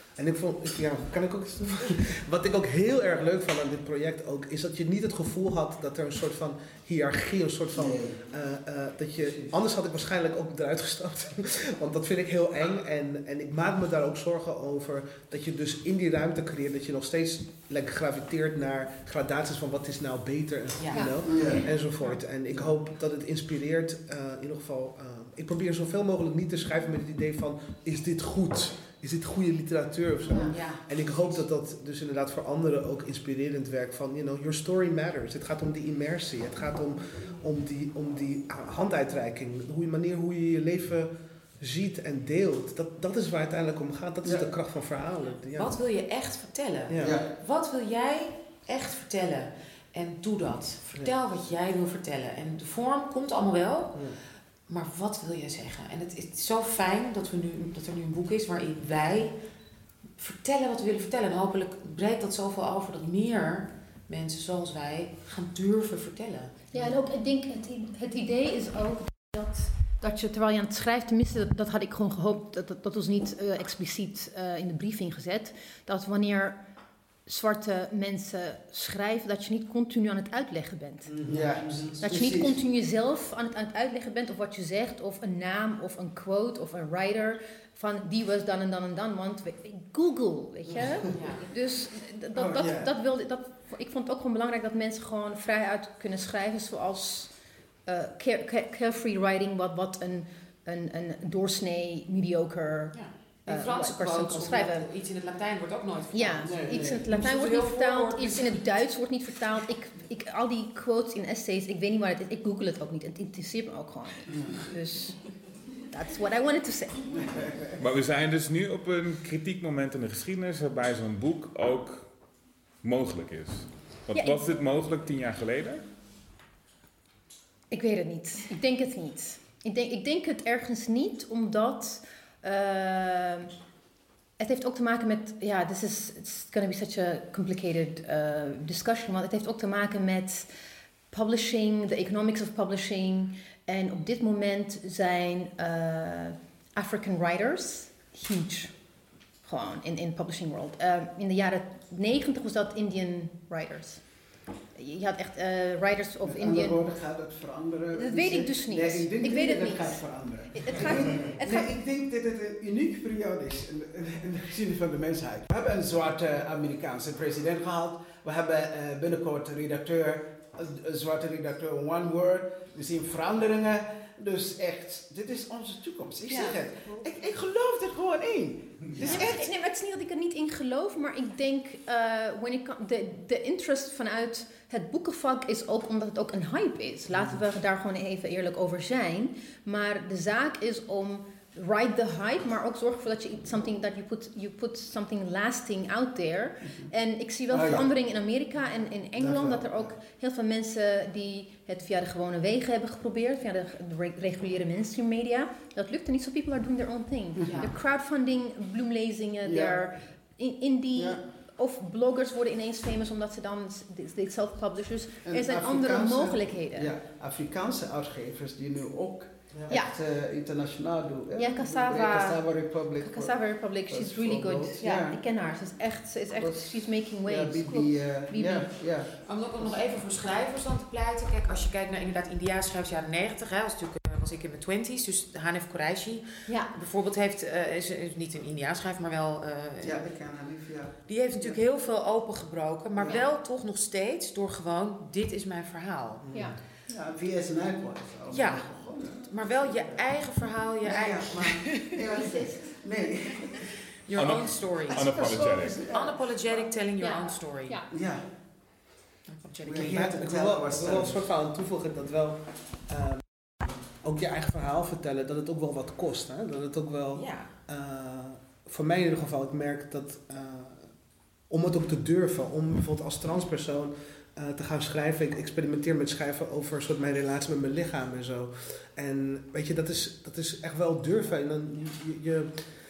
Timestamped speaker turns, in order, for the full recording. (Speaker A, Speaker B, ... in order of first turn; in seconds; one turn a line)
Speaker A: 0.2-45.8
Speaker B: 7.7-8.2
Speaker C: 20.8-21.7
Speaker B: 21.2-21.6
Speaker C: 30.5-31.4
Speaker C: 45.6-54.1
Speaker B: 47.0-47.3
Speaker C: 54.7-59.3
Speaker C: 60.2-66.5
Speaker D: 66.7-76.6
Speaker D: 77.3-81.2
Speaker B: 81.1-82.6
Speaker D: 82.0-97.3
Speaker C: 91.2-91.5
Speaker B: 92.4-92.9
Speaker D: 97.9-104.9
Speaker C: 102.9-108.6
Speaker D: 106.1-115.2
Speaker B: 106.5-107.1
Speaker D: 115.9-117.2
Speaker B: 117.2-117.5
Speaker E: 117.8-122.1
Speaker E: 122.8-125.8
Speaker D: 124.1-124.4
Speaker D: 127.7-133.5
Speaker D: 134.4-140.5
Speaker D: 141.1-148.7
Speaker D: 149.4-154.1
Speaker D: 154.8-156.8
Speaker B: 156.3-179.5
Speaker D: 157.9-161.7
Speaker D: 176.3-176.6
Speaker D: 179.0-216.9
Speaker B: 197.5-197.9
Speaker B: 199.2-199.9
Speaker B: 207.4-207.7
Speaker C: 207.4-207.7
Speaker B: 209.5-209.8
Speaker B: 211.0-211.2
Speaker B: 215.2-223.3
Speaker D: 219.7-219.9
Speaker D: 221.4-228.7
Speaker B: 223.9-225.2
Speaker B: 226.4-226.7
Speaker B: 227.2-229.1
Speaker C: 229.2-240.1
Speaker D: 236.5-236.7
Speaker B: 239.8-241.6
Speaker C: 241.1-246.3
Speaker B: 243.0-243.2
Speaker D: 246.3-246.6
Speaker B: 246.9-249.8
Speaker C: 248.3-251.9
Speaker B: 250.9-253.6
Speaker D: 252.2-252.6
Speaker C: 254.1-257.8
Speaker E: 254.2-255.8
Speaker B: 255.1-256.1
Speaker D: 257.0-257.9
Speaker B: 257.9-258.2
Speaker C: 259.3-260.4
Speaker B: 259.7-261.3
Speaker A: 259.9-263.2
Speaker A: 264.0-270.9
Speaker C: 267.1-267.5
Speaker A: 271.5-282.7